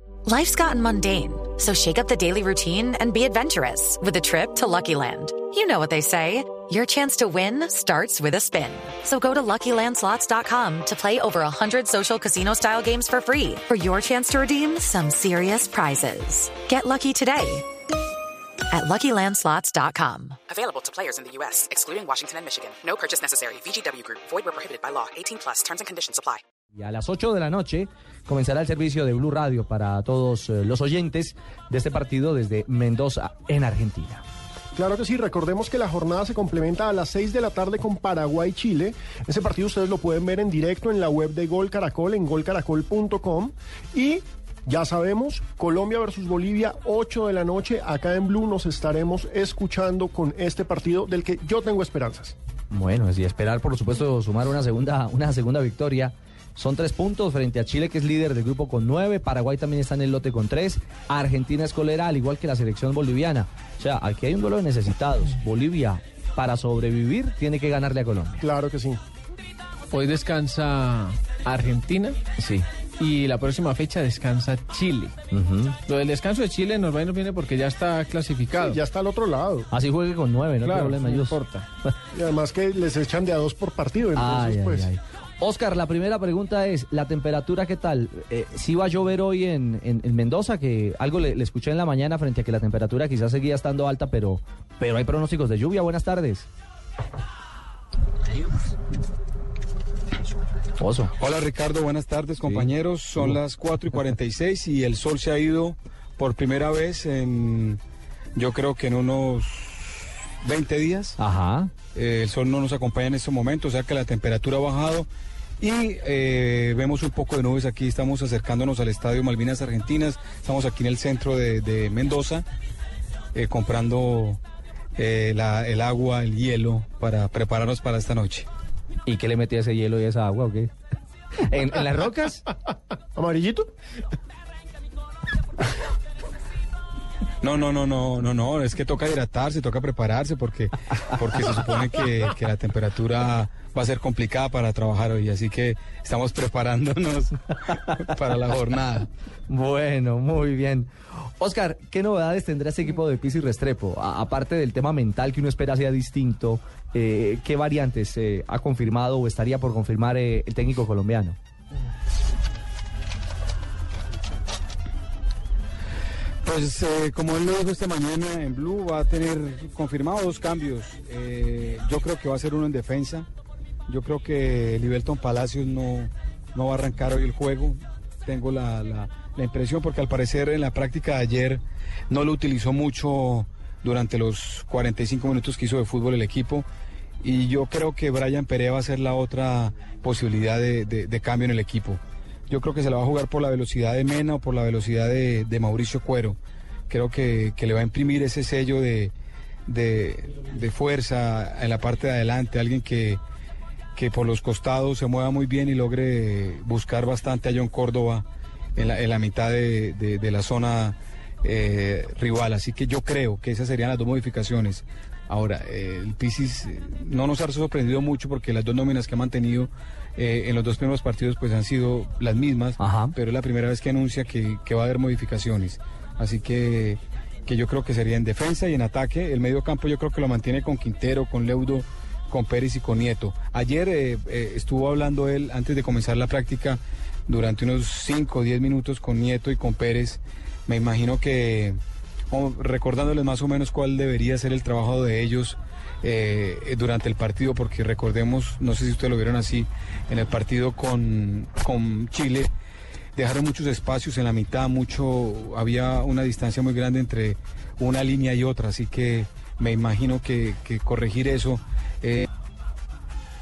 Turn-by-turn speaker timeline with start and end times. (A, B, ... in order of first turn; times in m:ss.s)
0:00.2-0:17.7 A
0:18.7-0:20.4 A
0:20.5-0:26.4 B
0:26.7-0:34.2 C
0:34.8-0:52.3 D
0:52.7-1:08.4 C
1:08.4-1:09.0 D
1:09.9-1:12.2 E
1:12.4-1:12.7 C
1:13.0-1:15.2 E
1:15.3-1:15.8 C
1:15.8-1:18.8 E
1:18.5-1:19.7 D
1:19.7-1:21.9 C
1:20.6-1:21.7 E
1:22.1-1:24.9 D
1:24.2-1:36.5 C
1:40.8-1:41.1 C
1:41.2-1:47.8 F
1:42.4-1:42.7 C
1:48.4-1:51.2 F
1:51.2-1:51.7 C
1:51.9-1:55.1 F
1:55.6-2:02.4 F
2:03.3-2:04.4 F
2:05.0-2:08.5 F
2:09.0-2:10.7 C
2:11.4-2:12.4 C
2:13.1-2:13.7 D
2:17.4-2:29.1 F
2:29.5-2:41.4 C
2:46.4-2:53.3 F
2:53.9-3:06.7 F
3:07.2-3:16.4 F
3:16.9-3:19.1 F
3:19.7-3:23.2 F
3:24.0-4:01.8 F
3:42.8-3:43.2 C
4:02.3-4:12.5 F
4:13.2-4:22.3 F